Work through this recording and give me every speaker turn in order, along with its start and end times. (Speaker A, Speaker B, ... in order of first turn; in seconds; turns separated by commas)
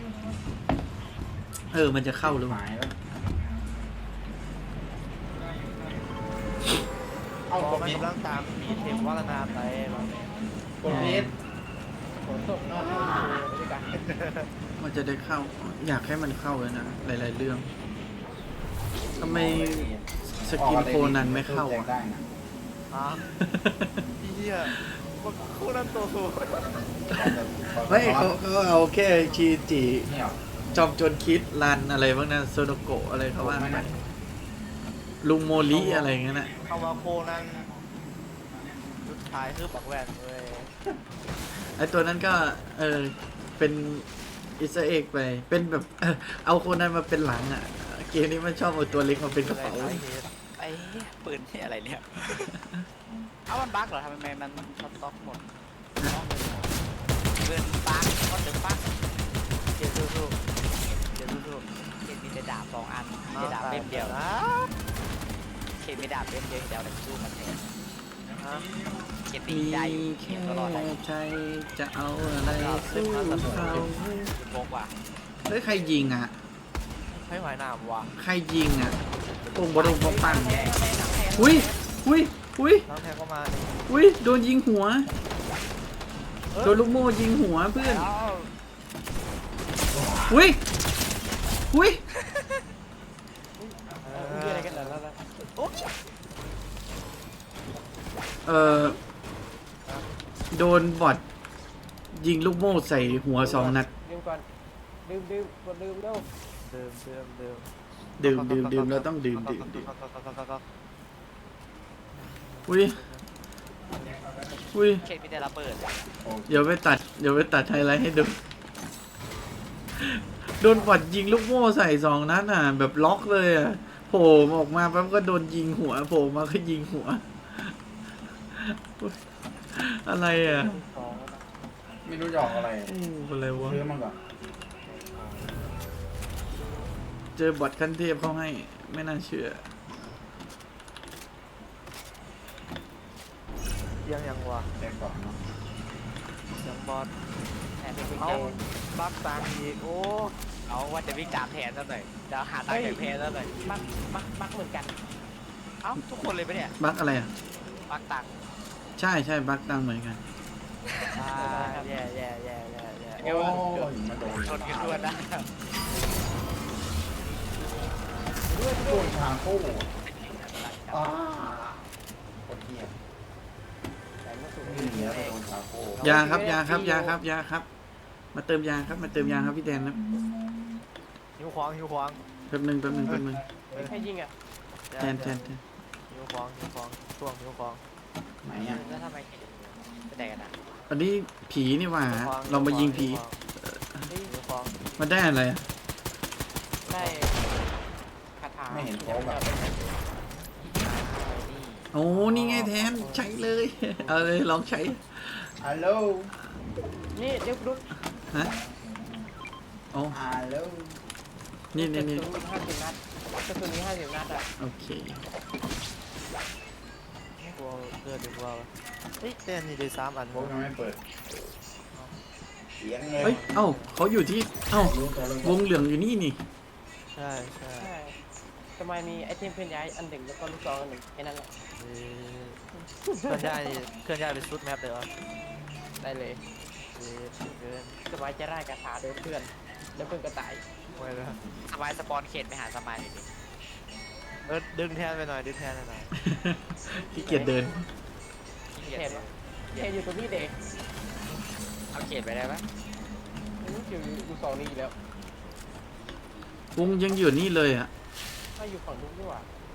Speaker A: 1.7-2.6, Speaker B: 2.3-3.0, Speaker B: 7.5-8.1, Speaker C: 7.5-10.3, Speaker B: 10.8-11.3, Speaker A: 10.8-11.4, Speaker D: 12.2-13.9, Speaker C: 12.3-13.3, Speaker B: 12.7-13.4, Speaker C: 13.9-14.5, Speaker A: 14.8-17.7, Speaker A: 19.2-21.9, Speaker B: 19.2-20.0, Speaker B: 20.5-22.3, Speaker C: 22.9-23.2, Speaker A: 23.3-24.0, Speaker C: 24.2-26.8, Speaker A: 24.7-24.9, Speaker B: 27.1-28.4, Speaker A: 27.9-30.1, Speaker B: 30.1-30.4, Speaker A: 30.7-33.9, Speaker B: 33.4-33.9, Speaker A: 35.2-36.5, Speaker C: 35.7-37.7, Speaker C: 39.0-40.7, Speaker A: 41.6-44.0, Speaker A: 44.6-50.0, Speaker C: 49.3-50.3, Speaker E: 50.6-52.6, Speaker E: 53.5-55.4, Speaker E: 56.0-56.3, Speaker C: 56.4-56.6, Speaker E: 57.4-58.9, Speaker C: 59.7-60.4, Speaker C: 61.1-61.6, Speaker E: 62.0-64.2, Speaker C: 63.3-64.7, Speaker E: 65.8-67.7, Speaker C: 68.4-68.7, Speaker E: 69.2-70.9, Speaker A: 69.5-74.3, Speaker C: 72.4-73.9, Speaker B: 73.4-73.8, Speaker E: 74.3-74.9, Speaker A: 75.5-76.3, Speaker C: 77.1-78.1, Speaker A: 78.2-80.7, Speaker D: 79.7-81.8, Speaker A: 81.3-82.9, Speaker C: 82.9-83.9, Speaker A: 83.9-85.1, Speaker C: 86.5-86.8, Speaker A: 86.6-88.1, Speaker E: 87.8-88.5, Speaker B: 89.9-90.3, Speaker A: 90.3-90.6, Speaker A: 91.7-92.0, Speaker C: 94.0-95.9, Speaker D: 94.1-95.2, Speaker A: 98.5-99.0, Speaker D: 98.6-99.0, Speaker C: 99.8-100.2, Speaker A: 100.5-101.2, Speaker A: 102.1-103.9, Speaker C: 103.0-103.6, Speaker D: 103.5-104.5, Speaker D: 105.0-106.3, Speaker C: 106.6-107.7, Speaker A: 108.2-109.9, Speaker C: 108.2-110.6, Speaker C: 112.2-113.3, Speaker A: 112.7-113.0, Speaker A: 114.7-115.0, Speaker E: 115.0-116.1, Speaker B: 116.2-116.7, Speaker A: 116.5-118.4, Speaker A: 120.0-127.8, Speaker A: 128.5-129.2, Speaker A: 129.7-130.8, Speaker D: 130.4-131.4, Speaker B: 132.1-132.9, Speaker A: 132.4-133.8, Speaker B: 133.6-134.2, Speaker E: 135.1-135.5, Speaker A: 137.4-139.7, Speaker C: 144.0-144.7, Speaker B: 144.8-145.4, Speaker C: 146.5-147.1, Speaker E: 147.8-148.6, Speaker D: 147.9-148.6, Speaker C: 148.2-150.4, Speaker E: 150.7-153.5, Speaker D: 152.7-153.0, Speaker D: 153.6-154.9, Speaker E: 155.8-156.8, Speaker A: 156.8-157.3, Speaker E: 157.9-158.3, Speaker A: 159.0-160.2, Speaker E: 160.9-161.8, Speaker C: 161.2-163.2, Speaker D: 161.4-161.9, Speaker D: 163.2-163.9, Speaker B: 163.3-165.1, Speaker E: 164.3-165.5, Speaker D: 168.5-169.2, Speaker B: 168.8-169.9, Speaker E: 170.1-171.1, Speaker B: 170.9-171.9, Speaker B: 172.4-172.9, Speaker D: 174.2-175.4, Speaker B: 174.6-176.2, Speaker C: 176.0-176.5, Speaker A: 176.0-177.7, Speaker D: 176.0-177.2, Speaker A: 178.3-180.0, Speaker C: 181.4-182.2, Speaker A: 182.5-183.4, Speaker C: 183.1-183.9, Speaker D: 183.8-184.3, Speaker C: 184.9-185.4, Speaker A: 185.0-185.6, Speaker C: 186.1-187.8, Speaker B: 188.4-188.8, Speaker E: 188.5-190.6, Speaker A: 190.9-194.1, Speaker C: 192.1-193.4, Speaker D: 194.1-194.3, Speaker C: 194.2-194.8, Speaker A: 195.0-195.6, Speaker D: 196.9-197.4, Speaker E: 196.9-197.2, Speaker D: 198.4-199.6, Speaker B: 198.7-199.8, Speaker E: 200.8-201.9, Speaker A: 201.9-205.5, Speaker C: 202.1-203.1, Speaker B: 202.4-202.7, Speaker B: 205.6-206.3, Speaker D: 207.1-207.8, Speaker B: 208.5-209.1, Speaker B: 210.1-211.0, Speaker A: 211.7-212.2, Speaker D: 211.7-214.5, Speaker A: 214.6-215.2, Speaker C: 217.4-220.6, Speaker B: 220.3-221.0, Speaker C: 221.9-222.2, Speaker B: 222.8-223.4, Speaker C: 223.2-223.9, Speaker A: 223.2-226.4, Speaker B: 224.8-225.6, Speaker C: 227.1-227.9, Speaker D: 227.8-228.2, Speaker D: 228.8-231.5, Speaker C: 231.8-232.6, Speaker D: 232.8-233.6, Speaker C: 233.3-235.1, Speaker D: 236.0-236.4, Speaker C: 236.9-238.0, Speaker D: 238.1-240.6, Speaker C: 240.9-241.4, Speaker E: 241.7-243.3, Speaker C: 244.5-246.1, Speaker A: 246.2-247.8, Speaker D: 247.2-247.6, Speaker E: 248.7-249.9, Speaker D: 248.8-250.6, Speaker E: 251.9-252.7, Speaker D: 253.6-255.0, Speaker A: 256.8-257.9, Speaker D: 258.6-259.5